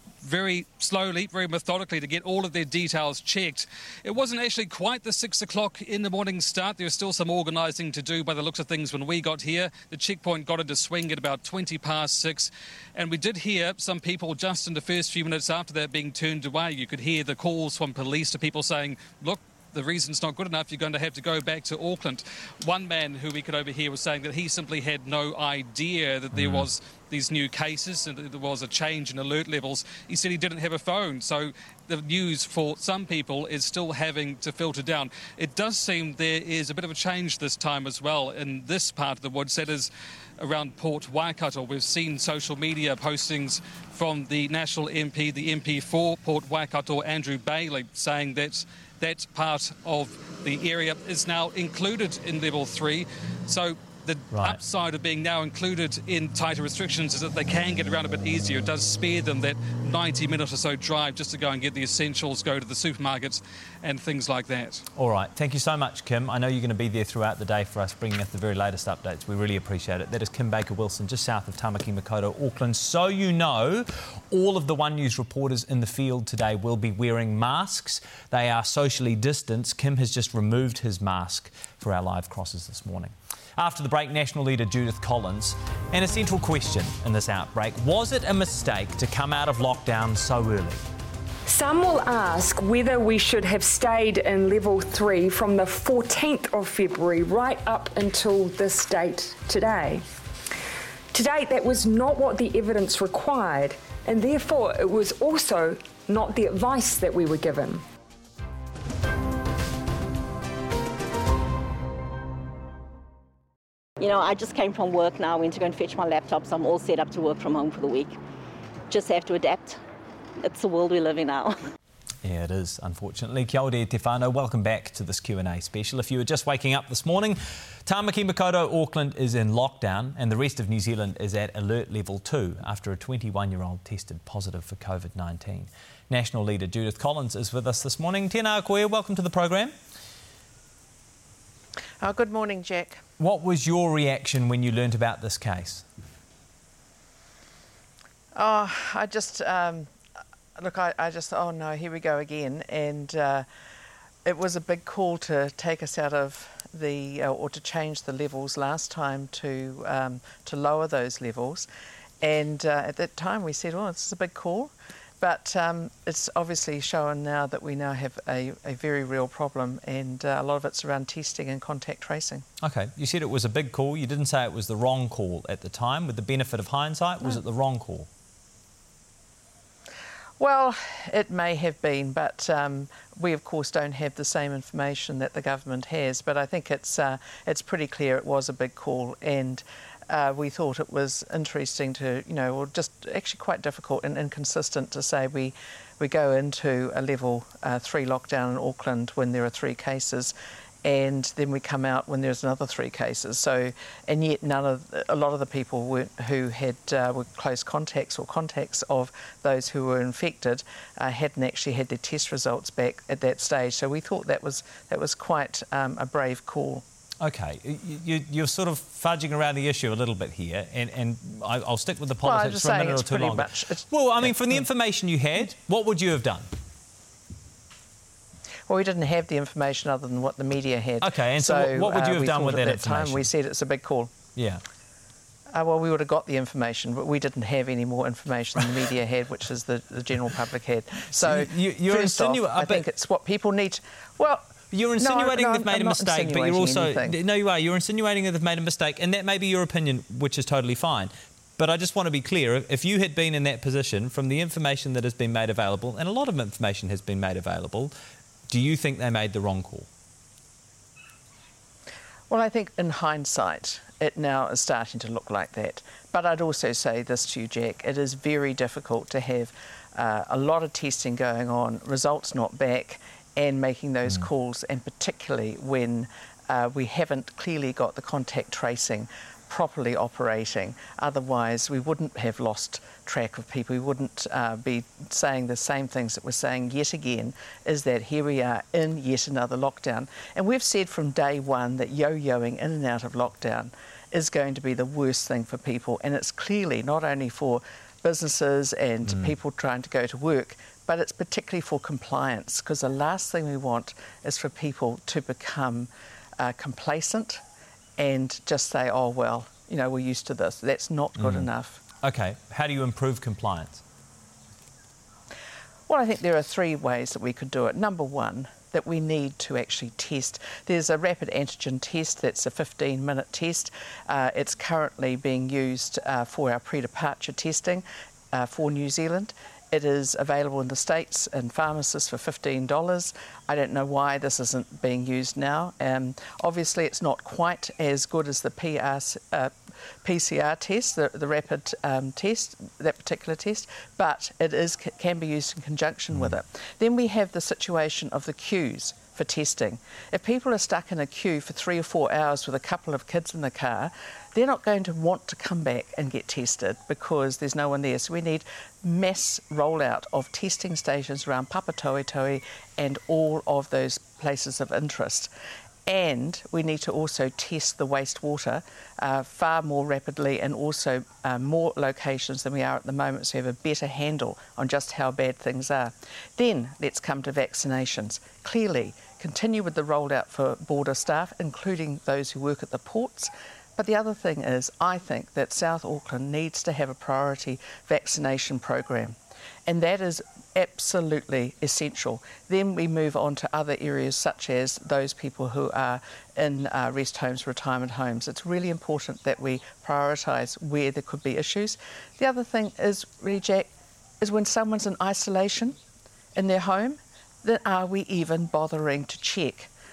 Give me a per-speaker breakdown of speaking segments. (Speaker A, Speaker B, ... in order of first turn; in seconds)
Speaker A: 0.2-64.8
Speaker B: 26.3-26.7, 54.3-54.6, 65.0-90.8, 122.2-139.7, 143.2-145.8, 172.6-178.1, 217.2-226.5, 231.0-233.3, 234.4-234.6, 241.1-242.8, 244.7-257.9, 258.5-259.9, 299.1-299.3, 311.2-311.5, 312.0-313.8
Speaker C: 91.5-100.0, 101.1-107.8
Speaker D: 114.0-118.2, 118.9-119.8, 120.4-121.6
Speaker E: 142.0-143.0, 148.3-149.9, 150.6-153.5, 154.3-161.7, 162.2-172.5, 180.4-216.8, 222.2-224.7, 228.7-234.1, 235.5-247.2, 262.3-307.4, 308.0-311.8, 315.9-365.3, 365.9-403.7, 404.2-405.8, 406.4-409.7